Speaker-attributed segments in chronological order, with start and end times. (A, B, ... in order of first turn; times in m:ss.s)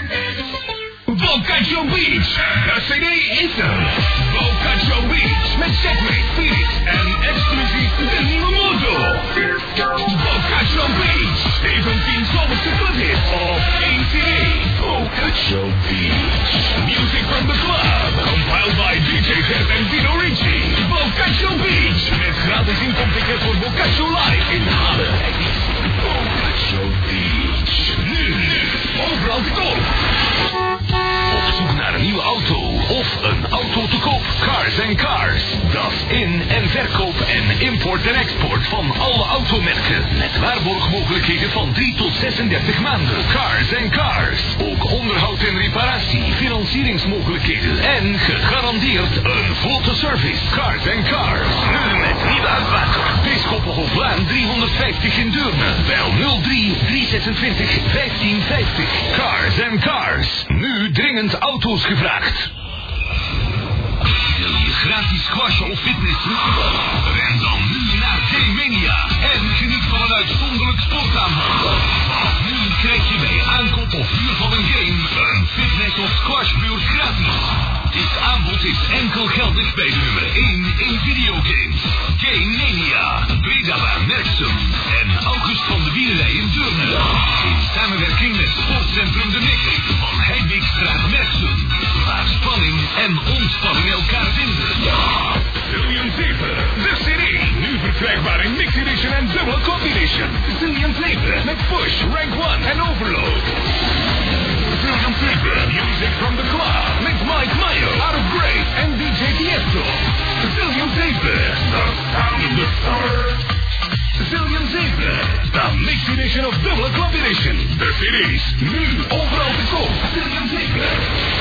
0:01.1-0:29.9 A
0:31.2-1:02.5 A
1:04.3-1:43.6 A
1:44.5-1:53.4 A
1:54.2-2:01.1 A